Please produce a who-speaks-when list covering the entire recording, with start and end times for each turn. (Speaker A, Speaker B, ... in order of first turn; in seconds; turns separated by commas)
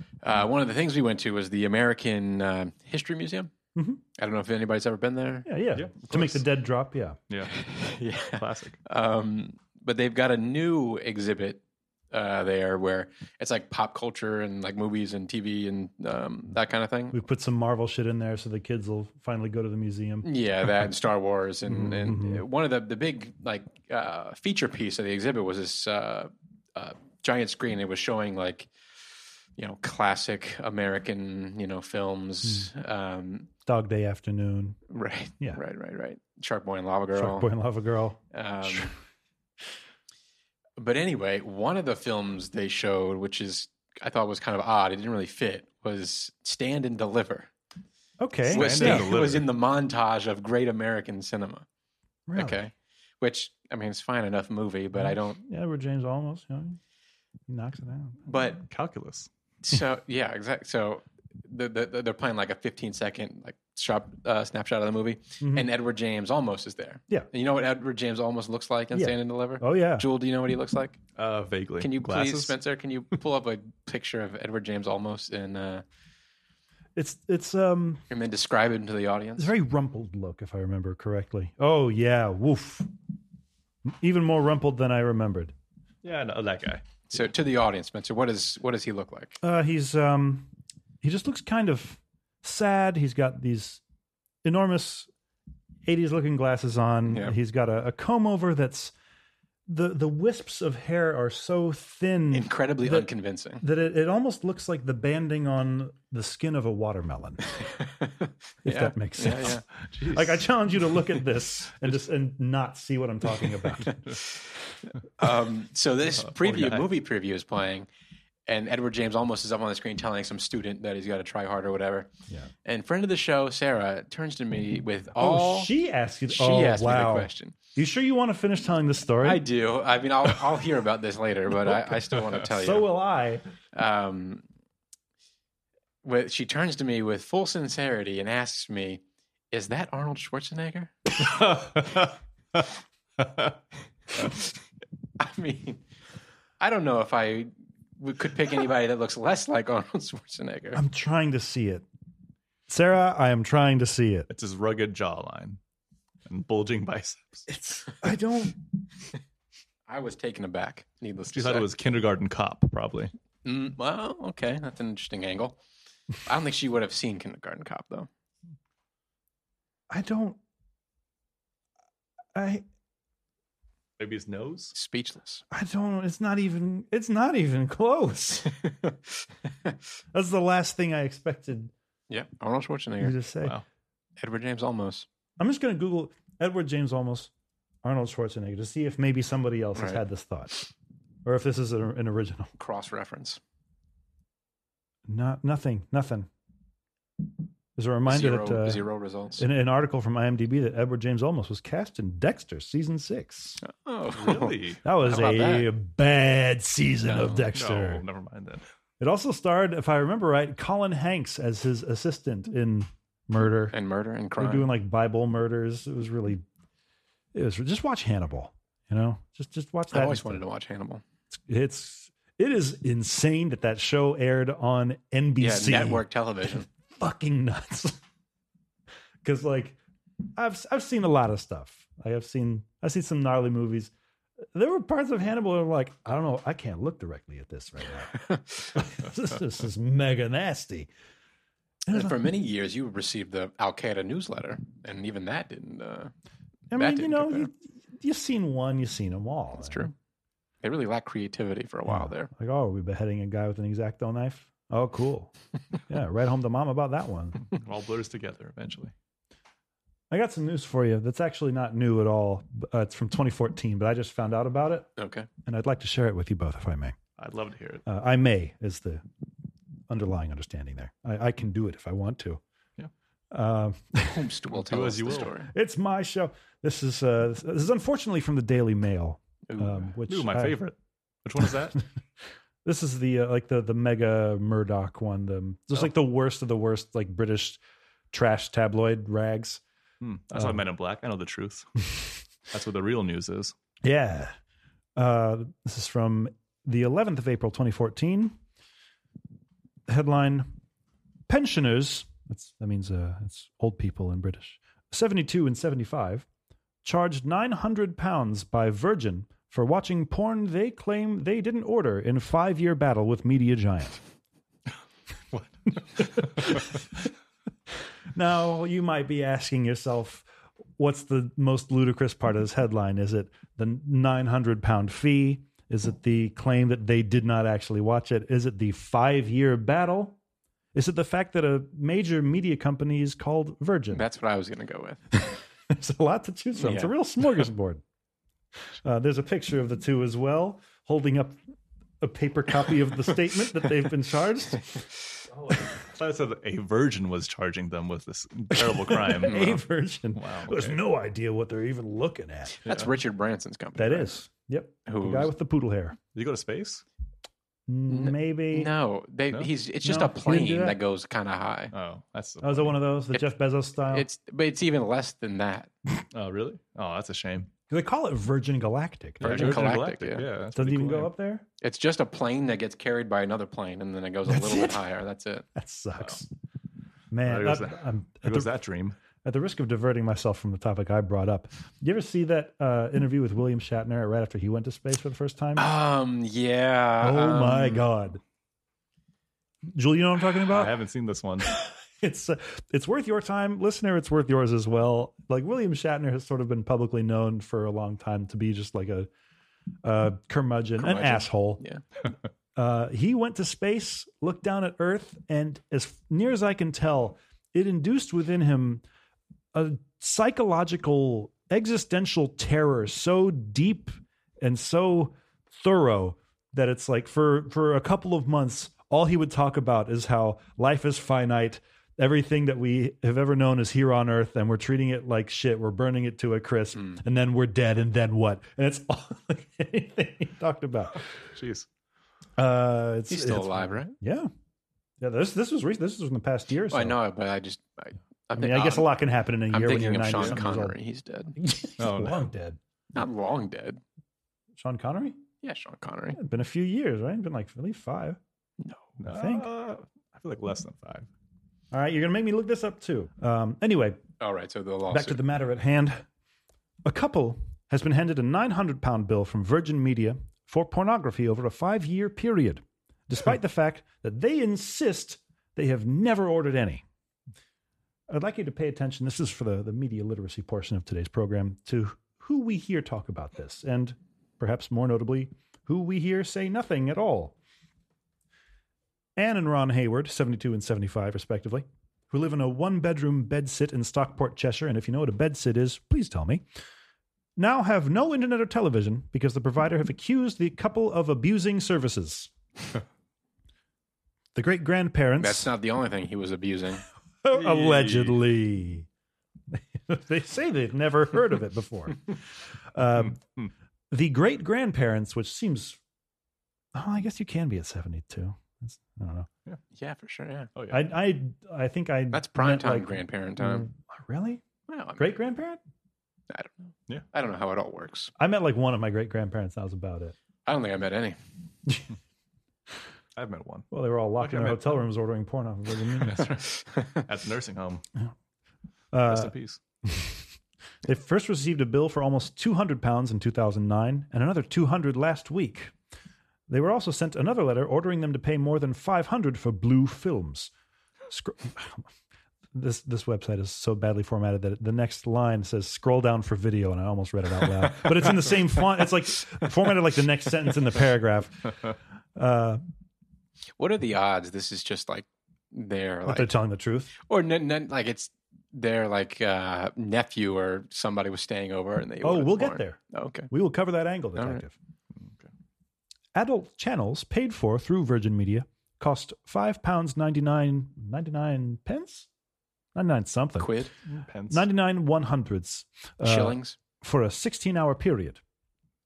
Speaker A: 0.2-3.5, Speaker B: 3.7-4.0, Speaker A: 4.2-5.5, Speaker B: 5.5-7.2, Speaker C: 5.7-6.4, Speaker C: 7.3-7.6, Speaker A: 7.5-17.2, Speaker C: 8.3-8.8, Speaker B: 17.1-20.3, Speaker A: 20.2-28.7, Speaker B: 21.7-22.4, Speaker A: 29.6-33.5, Speaker B: 33.6-34.8, Speaker A: 34.9-37.5, Speaker B: 37.1-38.9, Speaker A: 38.3-38.9, Speaker A: 40.8-47.5, Speaker B: 48.2-49.1, Speaker C: 48.5-49.5, Speaker A: 48.5-51.6, Speaker B: 52.3-52.6, Speaker A: 52.3-55.4, Speaker B: 55.0-56.8, Speaker B: 57.5-58.2, Speaker A: 58.2-58.6, Speaker C: 58.7-59.3, Speaker A: 59.6-71.0, Speaker B: 65.4-65.7, Speaker B: 68.9-70.1, Speaker C: 71.2-72.5, Speaker A: 71.8-75.8, Speaker B: 77.0-78.0, Speaker A: 78.1-79.5, Speaker B: 79.4-82.9, Speaker B: 83.8-85.5, Speaker C: 86.0-86.9, Speaker A: 87.1-89.4, Speaker B: 89.4-90.5, Speaker B: 91.0-93.8, Speaker B: 94.4-95.1, Speaker B: 95.8-98.9, Speaker A: 97.1-97.3, Speaker B: 99.7-103.1, Speaker A: 102.3-103.6, Speaker B: 103.6-107.4, Speaker A: 107.7-109.6, Speaker B: 108.6-114.0, Speaker C: 109.9-110.4, Speaker A: 113.8-114.4, Speaker A: 115.2-117.9, Speaker C: 116.1-116.9, Speaker A: 118.5-122.1, Speaker A: 122.6-125.7, Speaker B: 125.2-129.4, Speaker A: 126.3-127.6, Speaker A: 129.2-132.9, Speaker B: 132.4-133.4, Speaker A: 133.7-134.4, Speaker A: 136.0-141.0, Speaker C: 141.4-142.1, Speaker C: 143.2-143.5, Speaker A: 145.2-145.8, Speaker A: 146.6-150.8, Speaker B: 150.7-151.8, Speaker B: 152.7-154.3, Speaker C: 154.3-155.6, Speaker C: 156.2-157.5, Speaker B: 157.5-158.6, Speaker A: 159.9-161.7, Speaker C: 161.3-163.1, Speaker A: 163.4-165.6, Speaker A: 166.2-168.1, Speaker B: 169.9-170.4, Speaker B: 172.3-172.6, Speaker C: 174.0-174.7, Speaker A: 174.7-175.4, Speaker B: 175.5-178.5, Speaker B: 180.1-181.7, Speaker A: 182.1-183.1, Speaker B: 183.0-183.6, Speaker A: 184.2-185.1, Speaker B: 185.4-187.3, Speaker B: 187.8-190.7, Speaker B: 191.2-192.5, Speaker A: 192.6-193.4, Speaker B: 195.1-196.3, Speaker B: 197.8-198.8, Speaker A: 198.1-199.4, Speaker B: 199.4-203.6, Speaker A: 203.6-205.7, Speaker C: 204.1-204.8, Speaker B: 204.8-208.0, Speaker A: 207.0-207.5, Speaker C: 207.5-208.6, Speaker B: 209.0-213.7, Speaker A: 213.7-214.7, Speaker B: 214.4-216.4, Speaker B: 217.3-220.4, Speaker A: 219.9-221.0, Speaker B: 221.5-226.0, Speaker A: 225.4-226.7, Speaker B: 226.9-228.0, Speaker B: 229.2-229.8, Speaker B: 230.4-233.9, Speaker B: 234.5-238.2, Speaker A: 238.1-238.7, Speaker B: 238.7-240.9, Speaker B: 241.9-242.2, Speaker A: 241.9-246.1, Speaker B: 246.7-249.9, Speaker A: 246.7-247.5, Speaker A: 249.6-249.9, Speaker A: 250.6-252.3, Speaker B: 251.9-255.3, Speaker B: 255.9-257.4, Speaker C: 257.5-258.9, Speaker B: 260.1-264.9, Speaker A: 265.0-265.3, Speaker B: 265.4-266.9, Speaker C: 267.2-267.8, Speaker B: 267.9-269.0, Speaker B: 269.9-272.4, Speaker B: 273.3-274.3, Speaker A: 274.1-275.5, Speaker C: 274.5-275.3, Speaker B: 275.5-280.6, Speaker A: 279.5-279.9, Speaker C: 280.1-281.8, Speaker B: 282.6-287.6, Speaker B: 288.1-289.6, Speaker C: 290.0-292.0, Speaker C: 292.5-293.5, Speaker B: 293.8-294.3, Speaker B: 294.9-298.4, Speaker B: 299.9-300.5, Speaker B: 301.3-306.2, Speaker B: 306.8-314.0, Speaker B: 316.0-316.8, Speaker C: 316.0-316.5, Speaker B: 318.1-320.2, Speaker B: 320.8-330.2, Speaker B: 330.7-334.0, Speaker A: 333.9-335.0, Speaker B: 335.1-337.8, Speaker A: 336.6-336.9, Speaker B: 338.8-341.4, Speaker B: 342.0-344.8, Speaker C: 345.6-349.6, Speaker B: 348.5-352.6, Speaker C: 350.1-350.8, Speaker A: 352.5-354.1, Speaker B: 353.8-356.0, Speaker A: 354.9-355.3, Speaker C: 356.1-356.8, Speaker B: 357.7-358.7, Speaker A: 357.9-361.7, Speaker B: 359.8-360.8, Speaker C: 361.7-362.8, Speaker B: 362.4-364.1, Speaker A: 363.9-365.7, Speaker C: 366.1-367.5, Speaker B: 367.7-369.7, Speaker C: 369.2-371.1, Speaker A: 369.2-370.2, Speaker B: 370.5-371.4, Speaker A: 371.6-375.4, Speaker B: 374.3-374.8, Speaker B: 375.5-376.3, Speaker B: 377.1-378.5, Speaker C: 377.2-378.9, Speaker B: 379.2-385.7, Speaker A: 385.6-387.9, Speaker B: 387.0-388.2, Speaker B: 389.7-390.7, Speaker C: 390.4-391.5, Speaker B: 391.4-399.1, Speaker B: 399.8-401.6, Speaker A: 400.8-401.8, Speaker B: 402.6-408.8, Speaker B: 409.5-431.1, Speaker C: 431.3-431.7, Speaker B: 432.4-434.3, Speaker A: 433.1-433.9, Speaker B: 435.0-437.0, Speaker A: 436.7-438.9, Speaker B: 438.4-440.8, Speaker A: 439.5-441.3, Speaker B: 441.4-442.6, Speaker C: 441.8-442.3, Speaker A: 442.9-443.8, Speaker B: 444.6-445.2, Speaker A: 445.4-446.2, Speaker B: 446.1-448.2, Speaker C: 449.0-451.1, Speaker B: 449.1-449.5, Speaker B: 451.7-454.0, Speaker A: 454.2-455.2, Speaker B: 454.9-456.0, Speaker B: 456.8-466.8, Speaker B: 468.1-477.3, Speaker B: 479.1-486.4, Speaker B: 487.4-492.3, Speaker B: 494.3-495.5, Speaker A: 495.2-496.8, Speaker B: 497.2-498.9, Speaker C: 497.3-498.2, Speaker B: 499.5-503.2, Speaker B: 503.9-505.8, Speaker B: 506.7-509.3, Speaker A: 509.7-510.5, Speaker C: 510.5-510.9, Speaker B: 510.7-514.4, Speaker A: 512.1-513.6, Speaker A: 514.7-515.0, Speaker B: 515.0-515.6, Speaker A: 516.3-518.1, Speaker B: 518.2-520.1, Speaker A: 520.5-521.2, Speaker C: 523.1-524.8, Speaker B: 523.7-526.3, Speaker C: 526.0-527.8, Speaker A: 526.7-527.0, Speaker B: 528.9-529.3, Speaker C: 529.0-529.6, Speaker B: 529.8-530.1, Speaker B: 530.8-535.7, Speaker B: 536.5-540.5, Speaker B: 541.1-541.9, Speaker B: 542.5-552.6, Speaker A: 553.6-556.3, Speaker B: 556.0-556.9, Speaker A: 557.0-563.3, Speaker B: 562.0-562.8, Speaker B: 563.3-564.5, Speaker A: 564.1-564.4, Speaker C: 565.0-565.3, Speaker B: 566.1-572.1, Speaker B: 572.7-573.6, Speaker A: 573.4-573.7, Speaker C: 573.9-574.5, Speaker B: 574.3-578.2, Speaker A: 576.0-576.6